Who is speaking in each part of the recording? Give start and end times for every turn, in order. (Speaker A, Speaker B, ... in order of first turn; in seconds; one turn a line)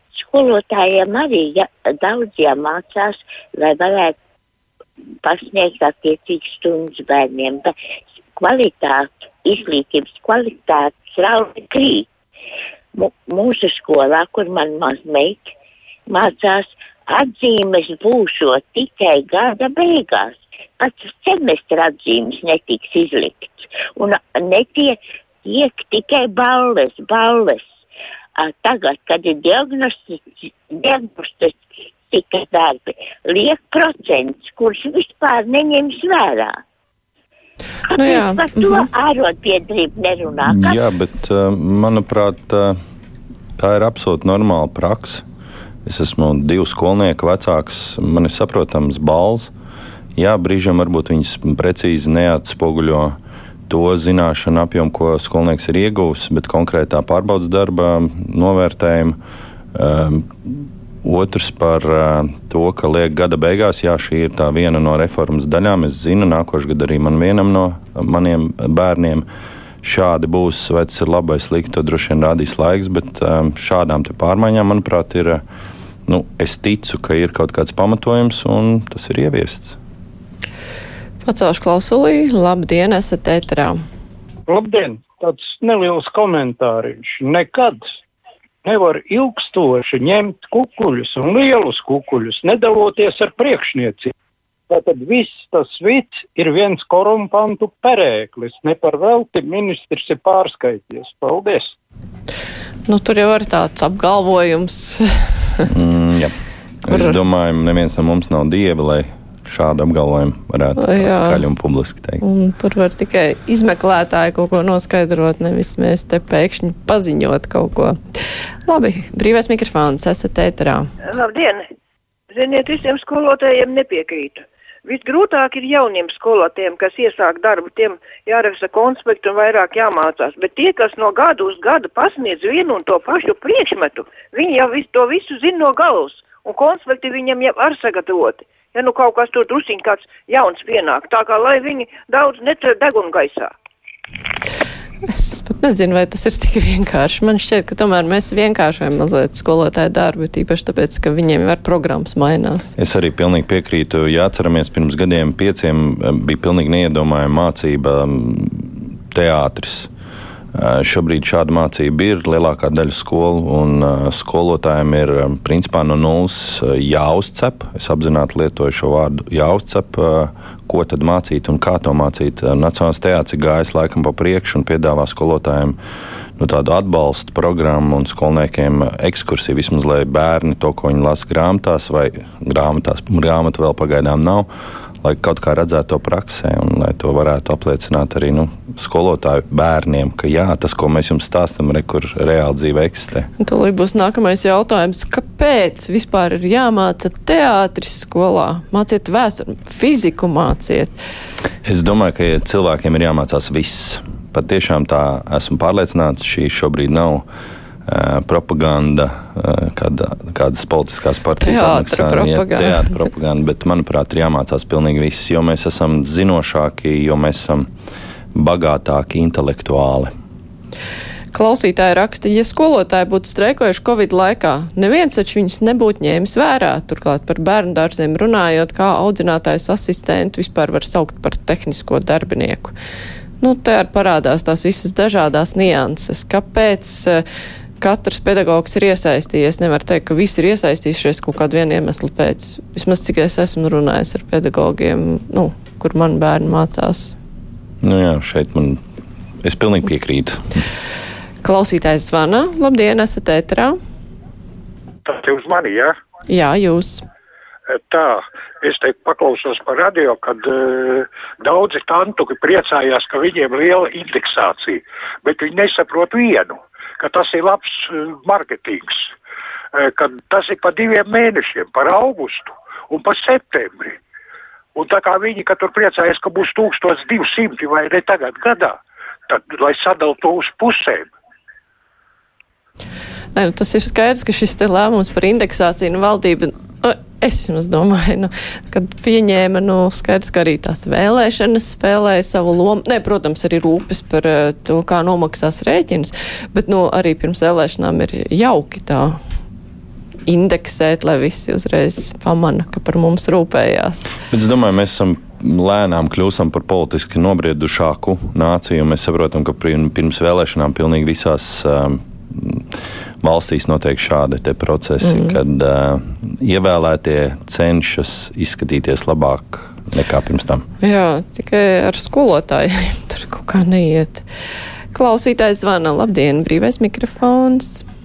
Speaker A: 0.1-4.2
Speaker A: 5.2-7.7
Speaker A: 8.4-12.1
Speaker A: 12.9-15.5
Speaker A: 16.1-27.7
Speaker A: 28.4-36.6
Speaker A: 37.9-40.8
Speaker B: 37.9-38.9
Speaker C: 40.5-42.8
Speaker C: 43.6-45.2
Speaker C: 45.9-49.5
Speaker C: 50.2-53.2
Speaker C: 53.7-59.2
Speaker C: 59.8-69.3
Speaker C: 69.8-75.4
Speaker C: 76.1-79.8
Speaker B: 81.2-83.8
Speaker D: 84.5-87.8
Speaker D: 88.6-94.1
Speaker D: 94.7-101.7
Speaker B: 102.9-105.7
Speaker C: 105.7-106.3
Speaker C: 106.9-112.2
Speaker B: 110.8-111.4
Speaker B: 112.2-120.9
Speaker E: 121.1-121.7
Speaker E: 122.3-143.5
Speaker B: 145.1-152.8
Speaker C: 152.8-159.9
Speaker C: 160.6-175.8
Speaker C: 176.4-184.5
Speaker C: 185.0-193.3
Speaker B: 193.4-200.9
Speaker C: 201.7-207.3
Speaker C: 207.9-217.7
Speaker B: 211.4-213.0
Speaker C: 218.3-220.1
Speaker B: 221.3-232.7
Speaker B: 233.4-237.2
Speaker B: 237.8-247.2
Speaker C: 247.8-248.8
Speaker C: 249.4-250.6
Speaker B: 251.4-253.8
Speaker F: 255.1-255.9
Speaker B: 256.3-257.0
Speaker F: 257.7-269.1
Speaker F: 269.7-274.0
Speaker F: 274.8-281.1
Speaker B: 283.3-299.2
Speaker B: 300.3-304.2
Speaker C: 304.3-312.7
Speaker C: 313.2-320.6
Speaker B: 315.0-315.4
Speaker B: 320.8-324.2
Speaker B: 324.9-327.8